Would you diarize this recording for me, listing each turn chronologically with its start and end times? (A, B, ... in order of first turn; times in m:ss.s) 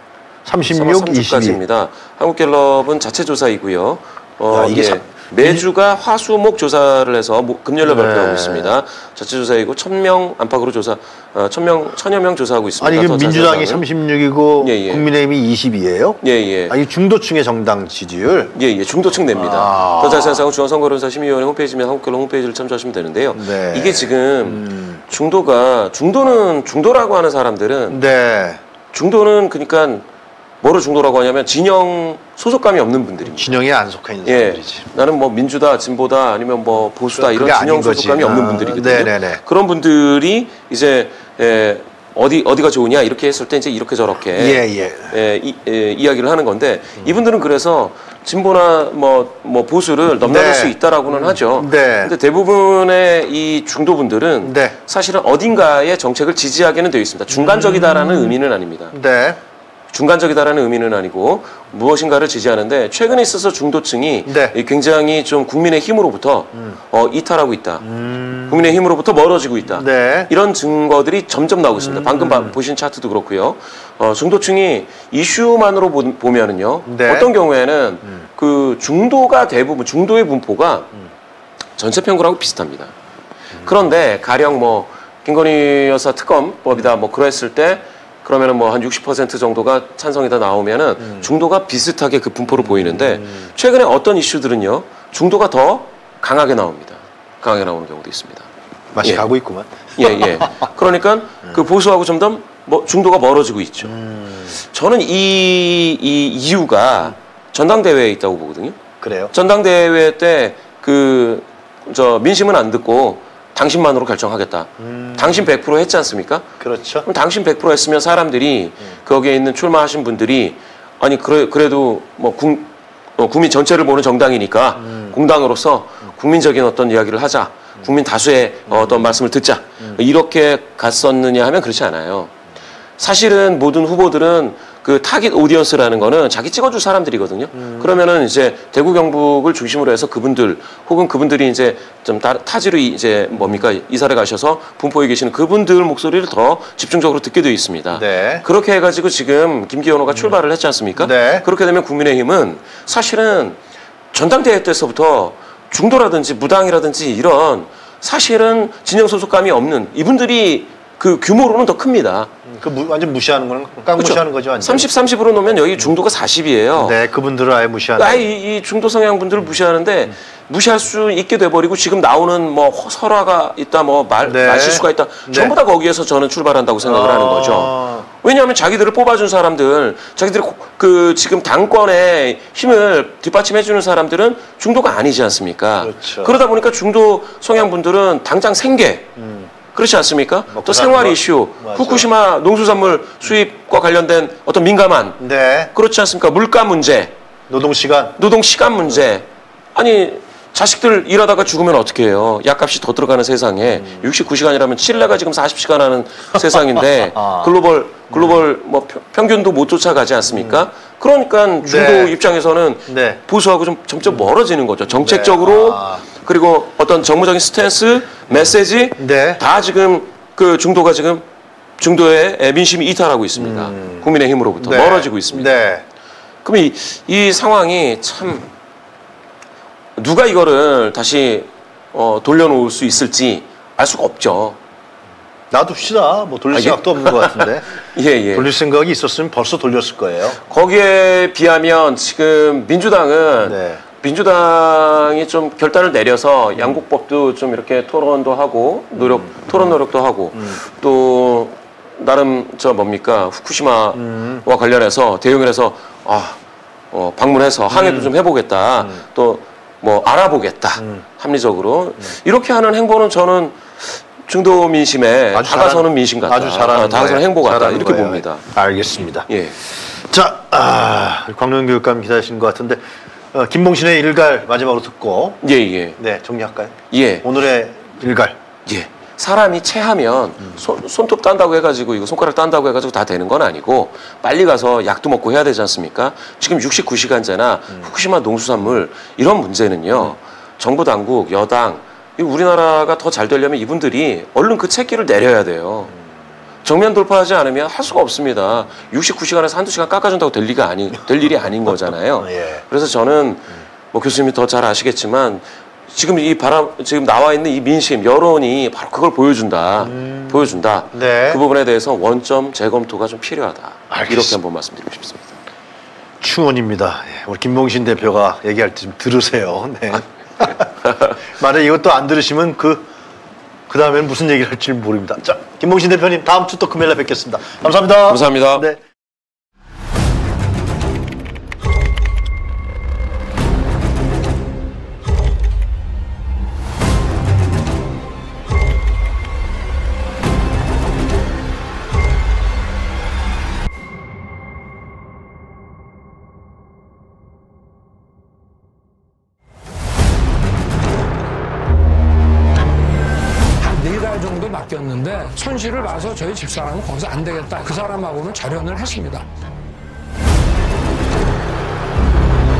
0:00.4-0:01.6 A
0:00.7-0:13.8 B
0:04.5-0:05.6 A
0:07.8-0:08.7 A
0:12.8-0:18.5 A
0:14.6-0:15.0 B
0:16.2-0:16.8 B
0:18.5-0:28.0 B
0:19.3-0:20.4 A
0:23.3-0:25.0 A
0:27.9-0:28.6 A
0:28.9-0:30.0 B
0:30.6-0:33.6 B
0:33.2-0:34.8 A
0:34.2-0:59.0 B
0:37.1-0:39.4 A
0:44.4-0:45.1 A
0:50.2-0:52.1 A
0:54.4-0:54.8 A
0:57.3-0:58.4 A
0:58.9-0:59.4 A
0:59.9-1:07.8 B
1:04.2-1:04.6 A
1:07.8-1:08.7 A
1:08.5-1:20.9 B
1:09.7-1:10.3 A
1:11.8-1:12.6 A
1:16.9-1:17.3 A
1:21.8-1:22.9 B
1:23.6-1:38.5 B
1:31.0-1:31.3 A
1:32.5-1:33.5 A
1:38.9-1:40.7 A
1:39.0-1:39.3 B
1:40.0-1:44.0 B
1:43.8-1:44.6 A
1:44.6-1:48.8 B
1:49.0-1:49.3 A
1:49.3-1:56.5 B
1:54.8-1:55.5 A
1:56.6-1:57.0 A
1:57.0-2:12.3 B
2:04.8-2:05.2 A
2:08.7-2:09.1 A
2:13.0-2:33.6 B
2:17.6-2:17.9 A
2:27.9-2:28.4 A
2:31.0-2:31.5 A
2:34.1-2:42.3 B
2:42.4-2:45.0 A
2:44.0-2:47.0 B
2:46.8-2:48.2 A
2:48.0-3:09.1 B
2:54.2-2:55.6 A
2:56.8-2:58.0 A
3:05.8-3:06.4 A
3:09.2-3:09.5 A
3:09.7-3:17.2 B
3:10.5-3:12.1 A
3:15.2-3:15.7 A
3:17.5-3:18.2 A
3:18.2-3:41.2 B
3:23.8-3:24.1 A
3:26.4-3:27.6 A
3:28.1-3:28.4 A
3:30.3-3:30.6 A
3:31.6-3:32.2 A
3:32.9-3:33.2 A
3:34.9-3:36.0 A
3:39.0-3:39.4 A
3:41.8-3:45.5 B
3:43.4-3:45.8 A
3:46.4-3:48.5 B
3:50.0-3:54.6 B
3:55.5-3:57.7 A
3:56.5-3:58.5 B
3:58.3-4:00.4 A
4:00.4-4:16.4 B
4:03.4-4:03.8 A
4:09.0-4:09.8 A
4:10.3-4:10.6 A
4:13.9-4:14.4 A
4:16.9-4:28.4 B
4:17.7-4:18.1 A
4:25.3-4:32.8 A
4:29.3-4:29.6 B
4:33.3-4:35.4 A
4:35.4-4:36.0 B
4:36.0-4:38.4 A
4:36.9-4:37.2 B
4:38.6-4:56.0 B
4:56.6-5:15.4 B
5:02.2-5:02.6 A
5:09.8-5:11.4 A
5:13.9-5:14.4 A
5:16.2-5:22.9 A
5:20.8-5:21.2 B
5:23.7-5:28.8 A
5:28.1-5:28.6 B
5:53.6-5:59.3 C